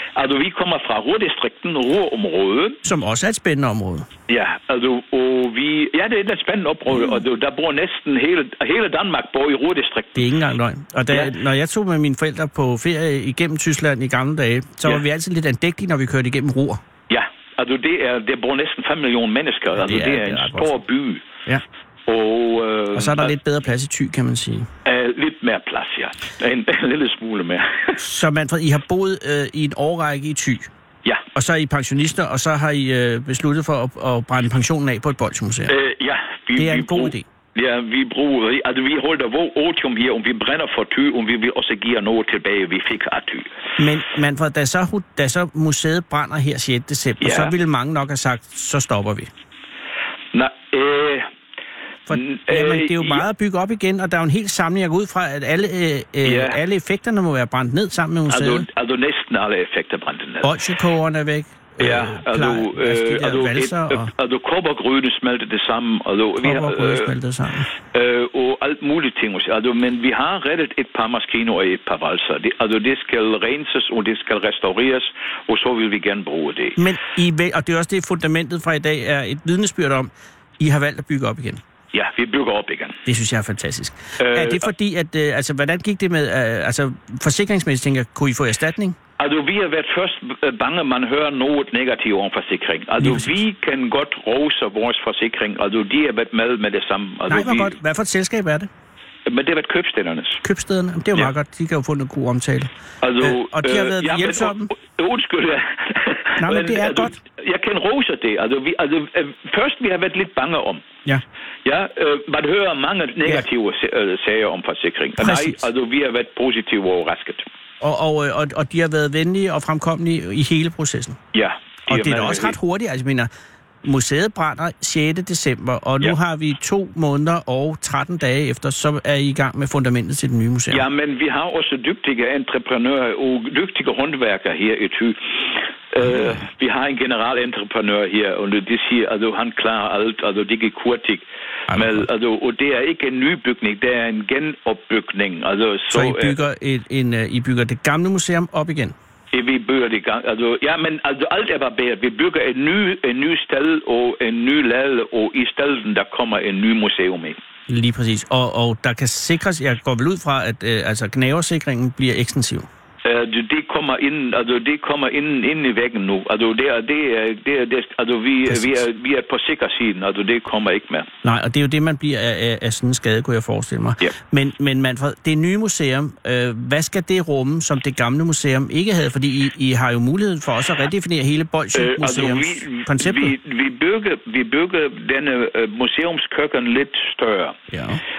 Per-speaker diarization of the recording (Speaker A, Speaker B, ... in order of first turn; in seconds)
Speaker A: 0.2-2.8, 4.3-10.2, 17.1-21.2, 22.1-23.3, 24.9-28.0, 35.7-43.5, 47.2-47.5, 50.3-51.3, 52.1-53.2, 56.2-56.6, 58.3-60.5, 61.8-67.1, 67.9-76.8, 81.9-83.0, 84.2-84.7, 89.2-97.8, 99.3-100.4, 103.0-110.8, 111.7-117.5, 121.3-122.6, 130.7-146.4, 149.3-157.4, 163.1-171.1, 181.8-187.6
Speaker B: 2.8-4.1, 10.2-16.8, 19.8-20.8, 22.9-24.7, 28.0-30.7, 31.4-35.7, 36.6-37.2, 43.8-49.3, 52.1-58.7, 60.4-64.1, 66.4-67.7, 76.8-81.6, 83.0-89.0, 93.0-93.3, 97.3-98.7, 100.4-104.7, 106.4-107.2, 115.2-115.6, 117.8-121.2, 121.9-123.3, 123.8-130.8, 141.7-142.0, 145.9-148.9, 157.7-162.7, 168.5-168.8, 171.2-183.3, 187.7-188.0